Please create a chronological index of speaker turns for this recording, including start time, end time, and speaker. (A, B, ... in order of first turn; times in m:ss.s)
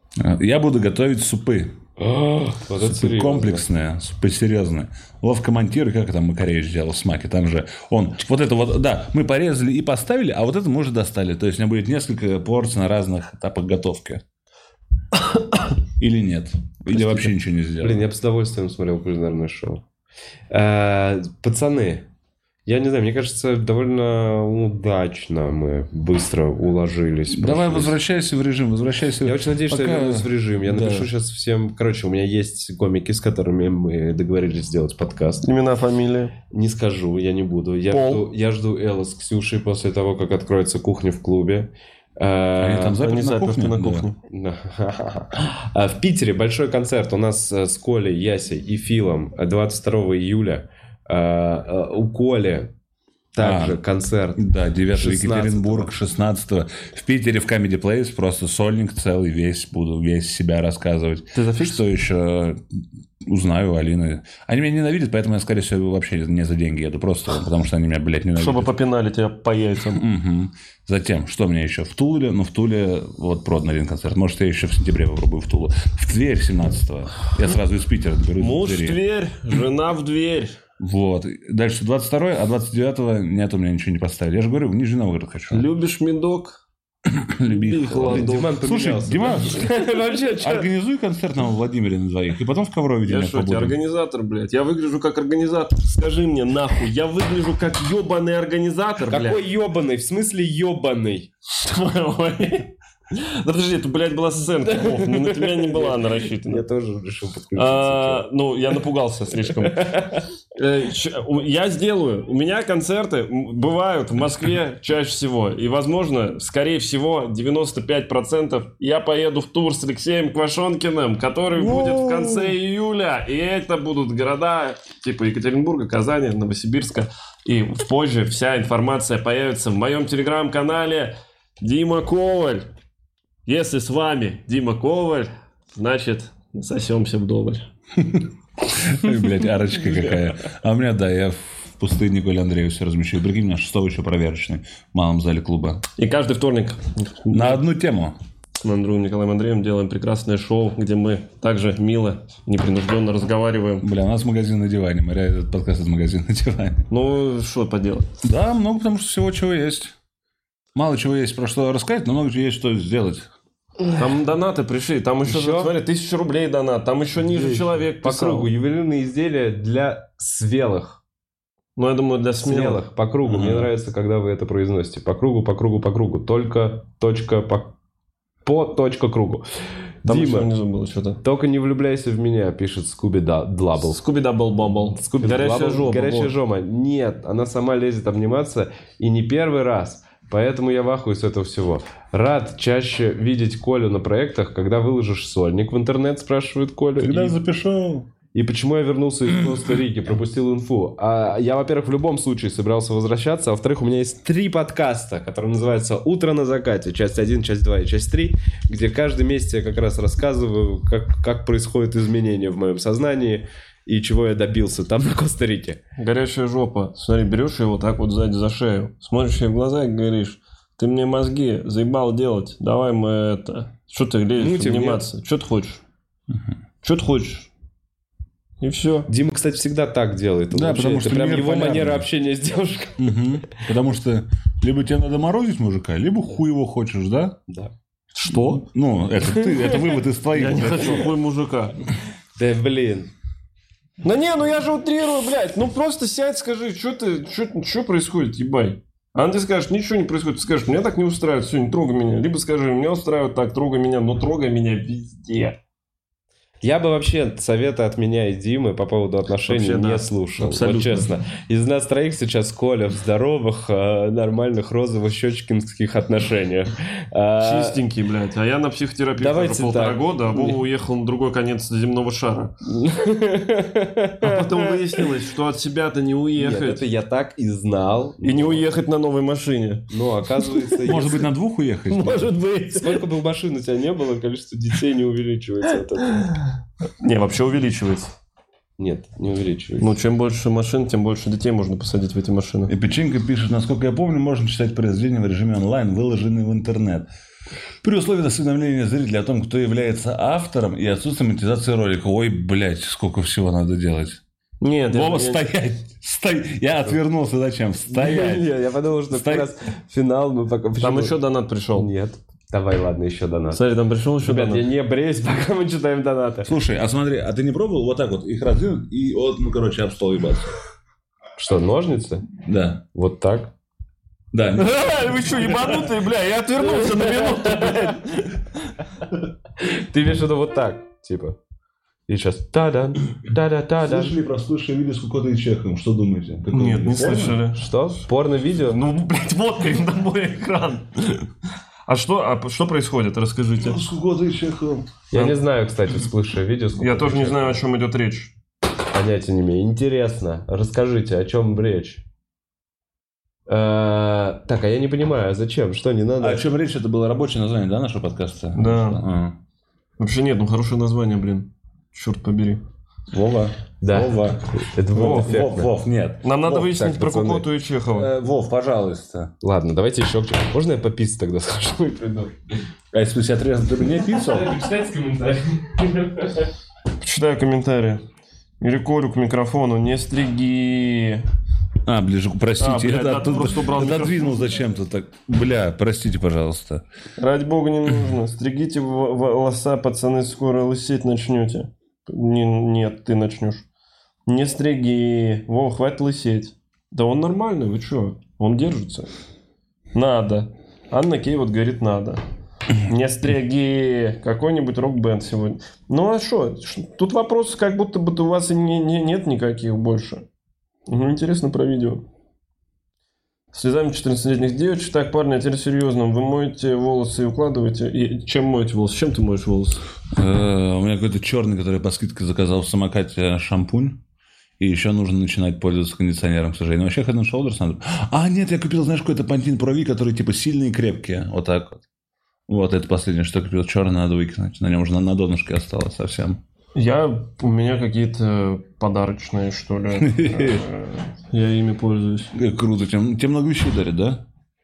0:00.2-0:01.8 A
0:02.0-0:03.6 B
0:02.8-0:14.2 A
0:16.0-0:18.0 A
0:16.9-0:19.8 B
0:20.5-0:22.1 B
0:22.6-0:28.0 B
0:27.3-0:31.1 A
0:29.2-0:35.4 B
0:35.4-0:36.3 C
0:36.5-0:43.0 B
0:37.9-0:38.2 C
0:42.6-0:44.1 A
0:43.0-0:44.2 C
0:44.3-0:52.7 B
0:53.3-0:55.9 B
0:53.4-0:53.8 A
0:54.4-1:08.7 A
1:01.3-1:01.8 C
1:08.4-1:10.0 C
1:09.9-1:19.0 A
1:18.4-1:20.6 C
1:20.8-1:25.6 A
1:25.5-1:26.6 C
1:27.0-1:33.8 A
1:27.5-1:28.5 C
1:28.0-1:30.7 B
1:33.0-1:39.4 C
1:39.1-1:41.3 B
1:41.6-1:46.6 C
1:44.6-1:48.2 B
1:47.6-2:12.7 C
1:49.6-1:50.2 B
2:01.6-2:02.6 A
2:13.4-2:17.7 C
2:18.0-2:25.8 A
2:26.0-2:27.6 C
2:27.3-2:28.2 A
2:28.6-2:33.8 C
2:33.8-2:36.9 A
2:36.9-2:38.0 C
2:38.2-2:39.9 A
2:40.7-2:43.3 A
2:44.0-2:48.5 C
2:45.2-2:45.7 B
2:47.2-2:47.8 A
2:48.0-2:51.0 B
2:51.8-2:52.8 C
2:52.4-2:57.7 B
2:53.2-2:53.7 A
2:58.4-2:59.4 B
3:00.0-3:00.5 B
3:00.0-3:01.2 C
3:01.2-3:04.0 B
3:03.8-3:06.3 C
3:04.6-3:17.4 B
3:17.0-3:18.1 A
3:18.3-3:35.8 B
3:36.0-3:45.8 C
3:44.4-3:45.0 B
3:46.8-3:47.5 C
3:48.6-3:49.1 C
3:49.1-3:53.2 B
3:50.5-3:52.0 A
3:53.0-3:57.4 A
3:58.2-3:58.6 C
3:58.2-4:01.1 A
4:00.3-4:01.8 C
4:02.4-4:03.1 B
4:04.0-4:15.6 C
4:16.6-4:27.8 B
4:19.4-4:21.0 C
4:27.4-4:32.6 C
4:29.2-4:30.6 B
4:32.7-4:35.0 B
4:34.2-4:36.8 C
4:36.4-4:38.6 B
4:38.2-4:41.0 C
4:39.9-4:41.2 B
4:40.8-4:42.3 A
4:41.9-4:43.0 C
4:42.7-4:46.3 B
4:47.0-4:48.1 C
4:48.8-4:49.9 B
4:49.8-4:52.7 C
4:52.7-4:57.1 A
4:57.8-5:04.2 A
5:04.6-5:05.4 C
5:04.9-5:08.5 A
5:07.9-5:11.1 B
5:09.1-5:09.5 A
5:10.8-5:11.9 C
5:11.8-5:13.6 B
5:13.5-5:14.6 C
5:14.2-5:16.5 B
5:16.4-5:20.6 A
5:21.4-5:22.3 B
5:22.4-5:22.8 A
5:22.9-5:23.5 B
5:24.3-5:25.5 A
5:24.6-5:28.4 C
5:26.6-5:27.7 B
5:29.6-5:31.4 B
5:32.1-5:34.2 B
5:33.8-5:37.4 A
5:36.5-5:37.7 C
5:37.5-5:38.8 B
5:38.7-5:41.3 C
5:41.9-5:43.8 C
5:43.6-5:44.9 A
5:45.1-5:47.6 B
5:46.8-5:48.3 C
5:48.9-5:52.0 B
5:53.5-5:56.4 B
5:56.2-5:59.4 A
5:58.6-5:59.0 C
6:00.0-6:02.6 C
6:03.1-6:06.8 A
6:03.8-6:05.7 B
6:06.2-6:08.1 C
6:06.7-6:07.4 B
6:07.9-6:09.3 A
6:09.4-6:12.3 B
6:12.9-6:14.6 A
6:14.1-6:16.5 B
6:17.0-6:18.0 C
6:18.6-6:21.2 C
6:21.8-6:26.8 A
6:22.6-6:24.5 C
6:27.2-6:33.6 C
6:34.3-6:39.1 C
6:39.9-6:42.2 C
6:42.8-6:50.2 C
6:50.9-6:52.0 C
6:53.5-6:59.8 C
7:00.1-7:04.0 A
7:04.6-7:11.8 A
7:12.5-7:16.4 A
7:16.7-7:22.3 C
7:20.0-7:20.6 A
7:22.3-7:24.2 A